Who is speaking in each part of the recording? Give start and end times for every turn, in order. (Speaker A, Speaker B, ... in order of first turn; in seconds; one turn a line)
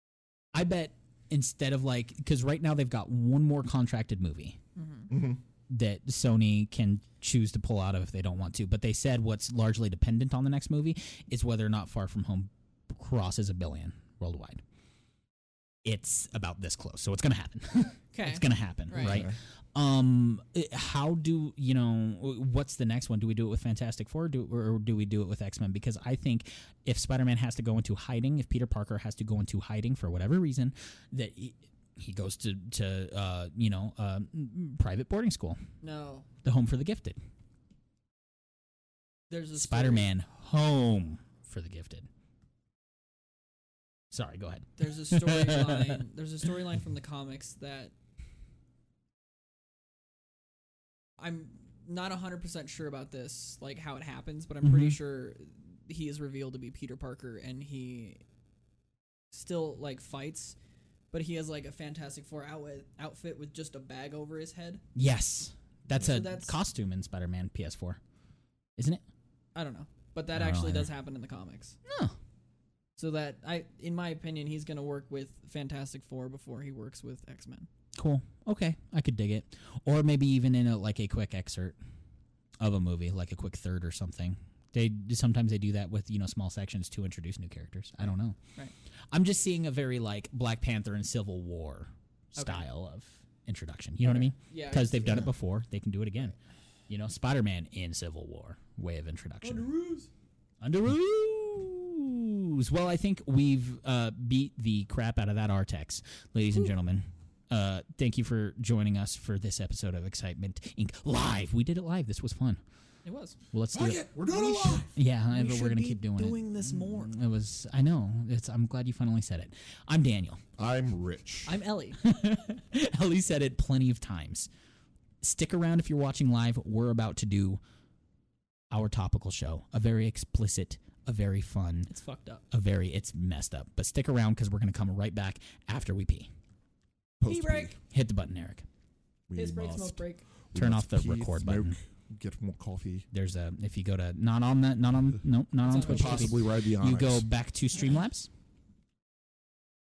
Speaker A: 0.5-4.6
Speaker B: 4.8-5.1
Speaker C: 5.1-5.4
Speaker A: 5.7-14.6
Speaker A: 15.8-35.6
Speaker B: 18.1-19.2
Speaker C: 18.9-19.4
Speaker B: 35.8-36.3
Speaker A: 36.4-37.2
Speaker B: 39.3-40.1
Speaker A: 39.5-42.1
Speaker A: 44.1-46.0
Speaker B: 44.8-47.9
Speaker B: 51.2-58.2
Speaker A: 54.6-55.0
Speaker B: 59.3-60.5
Speaker B: 61.1-64.8
Speaker A: 64.9-68.0
Speaker B: 66.0-66.5
Speaker A: 68.8-69.0
Speaker B: 69.5-71.8
Speaker A: 70.3-70.9
Speaker A: 71.9-72.2
Speaker B: 73.0-77.7
Speaker A: 77.9-81.8
Speaker A: 82.6-88.4
Speaker A: 89.1-96.4
Speaker B: 92.4-92.6
Speaker B: 94.0-95.3
Speaker A: 96.9-99.7
Speaker B: 99.4-100.1
Speaker A: 100.6-112.6
Speaker B: 113.0-113.4
Speaker A: 113.5-114.0
Speaker C: 113.7-114.9
Speaker B: 114.3-117.1
Speaker A: 114.9-120.4
Speaker C: 120.6-121.5
Speaker B: 121.5-122.0
Speaker A: 122.0-124.5
Speaker A: 125.2-127.6
Speaker A: 128.7-131.9
Speaker B: 131.9-132.4
Speaker A: 132.5-136.3
Speaker C: 137.2-137.8
Speaker B: 137.2-137.7
Speaker A: 137.9-138.7
Speaker C: 139.3-143.1
Speaker B: 139.3-140.2
Speaker A: 140.5-141.8
Speaker A: 143.1-148.3
Speaker B: 145.6-146.4
Speaker C: 145.8-147.2